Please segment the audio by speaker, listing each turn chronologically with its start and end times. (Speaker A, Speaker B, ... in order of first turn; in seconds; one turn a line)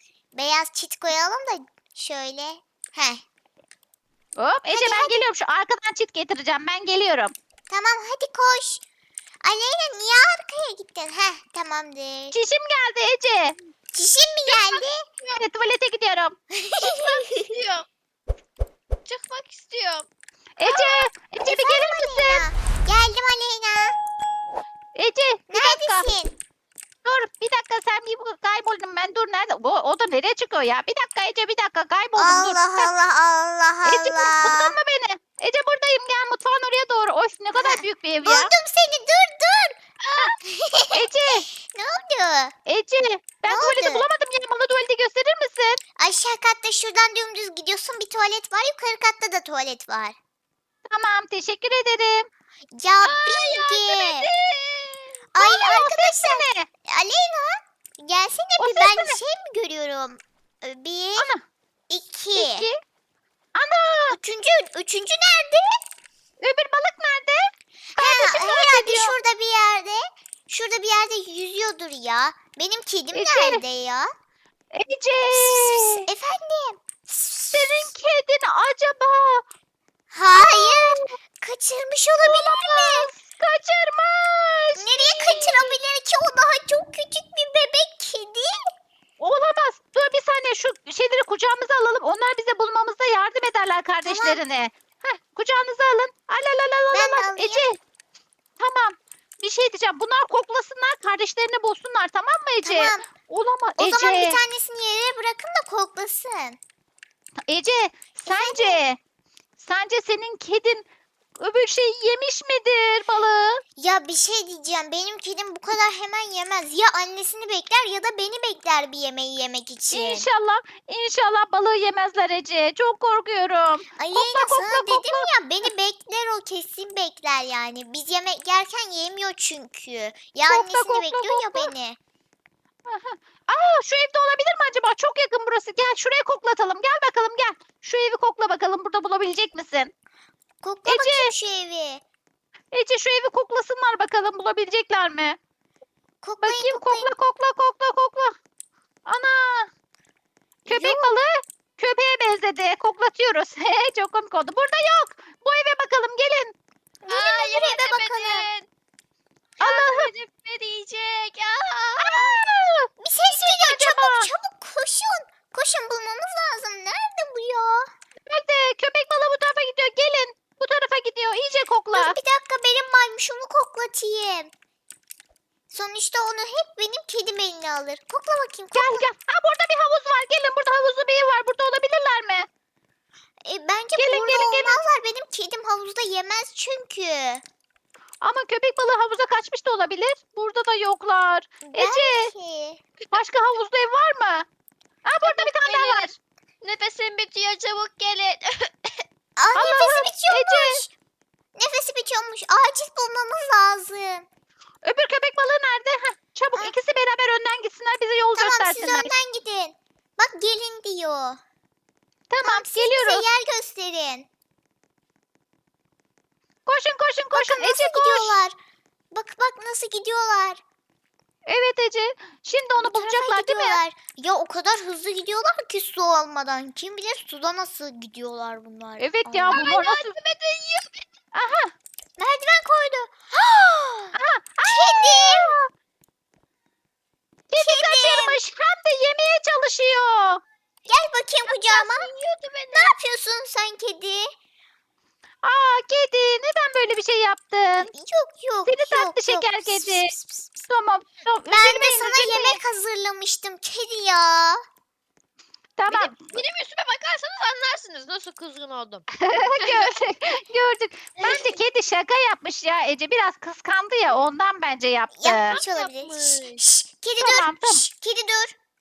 Speaker A: 0.3-3.2
Speaker B: 4.4-7.3
Speaker A: 4.7-5.2
Speaker A: 7.7-8.8
Speaker A: 9.4-12.4
Speaker B: 12.3-13.6
Speaker A: 13.9-15.0
Speaker C: 14.4-15.4
Speaker B: 15.3-16.4
Speaker A: 16.5-17.4
Speaker C: 16.8-17.9
Speaker C: 19.0-20.1
Speaker B: 20.6-22.5
Speaker C: 20.6-21.1
Speaker A: 21.4-23.9
Speaker B: 24.9-26.1
Speaker A: 25.5-26.3
Speaker B: 27.0-32.9
Speaker A: 32.1-34.8
Speaker B: 33.8-38.5
Speaker A: 37.5-39.8
Speaker C: 40.0-40.4
Speaker A: 40.5-42.5
Speaker B: 40.9-41.5
Speaker B: 42.6-45.8
Speaker A: 43.5-44.1
Speaker A: 46.0-50.2
Speaker B: 50.9-52.3
Speaker A: 52.8-54.3
Speaker C: 53.0-55.2
Speaker A: 55.3-61.3
Speaker B: 55.4-56.6
Speaker B: 58.6-59.2
Speaker B: 61.1-61.4
Speaker A: 61.9-62.7
Speaker B: 62.3-62.8
Speaker B: 63.5-64.2
Speaker A: 64.1-65.8
Speaker B: 66.4-69.2
Speaker A: 67.9-74.1
Speaker B: 73.1-73.6
Speaker B: 74.7-76.1
Speaker A: 75.3-77.9
Speaker B: 77.5-79.4
Speaker A: 80.1-83.1
Speaker B: 80.3-81.1
Speaker B: 82.2-85.8
Speaker A: 84.8-88.7
Speaker B: 89.2-97.8
Speaker A: 94.0-94.4
Speaker A: 96.9-97.7
Speaker B: 98.6-104.4
Speaker A: 102.6-103.1
Speaker A: 103.8-106.6
Speaker B: 107.5-109.0
Speaker A: 108.3-108.8
Speaker B: 109.6-110.8
Speaker B: 111.4-113.6
Speaker A: 113.8-120.3
Speaker B: 119.9-125.3
Speaker A: 124.0-132.0
Speaker B: 130.5-131.7
Speaker B: 132.9-139.9
Speaker A: 140.6-142.0
Speaker B: 140.8-141.3
Speaker B: 142.7-145.4
Speaker A: 146.2-147.1
Speaker B: 146.4-148.3
Speaker B: 149.1-149.7
Speaker B: 150.6-156.5
Speaker A: 150.7-151.2
Speaker A: 157.0-158.5
Speaker C: 157.1-158.7
Speaker B: 159.6-160.1
Speaker C: 159.6-162.4
Speaker B: 162.0-164.3
Speaker A: 163.0-167.9
Speaker B: 168.2-172.2
Speaker A: 171.9-174.5
Speaker A: 175.7-179.1
Speaker B: 178.7-182.5
Speaker A: 183.4-187.4
Speaker B: 183.9-184.8
Speaker B: 188.2-192.3
Speaker A: 191.7-192.8
Speaker B: 193.1-194.4
Speaker B: 195.0-196.2
Speaker C: 195.2-199.0
Speaker A: 199.4-200.9
Speaker B: 199.5-200.8
Speaker A: 201.6-204.3
Speaker B: 204.8-209.1
Speaker A: 208.3-211.4
Speaker B: 212.3-213.2
Speaker A: 212.4-214.3
Speaker B: 216.7-218.3
Speaker A: 217.3-218.5
Speaker A: 219.1-220.6
Speaker B: 221.4-223.8
Speaker A: 222.8-229.6
Speaker B: 229.0-230.1
Speaker C: 229.5-231.0
Speaker B: 231.3-231.7
Speaker A: 232.2-233.1
Speaker C: 233.3-234.1
Speaker B: 234.1-235.6
Speaker A: 234.6-235.5
Speaker B: 237.5-240.4
Speaker A: 237.5-238.4
Speaker A: 240.8-242.1
Speaker C: 241.4-242.9
Speaker A: 242.7-244.3
Speaker B: 245.4-247.9
Speaker A: 247.7-250.4
Speaker B: 248.6-252.6
Speaker A: 251.5-254.6
Speaker B: 255.8-256.4
Speaker C: 255.9-259.0
Speaker B: 259.1-265.6
Speaker C: 259.6-259.9
Speaker C: 261.2-261.6
Speaker A: 265.1-268.5
Speaker C: 265.5-266.6
Speaker B: 267.2-267.8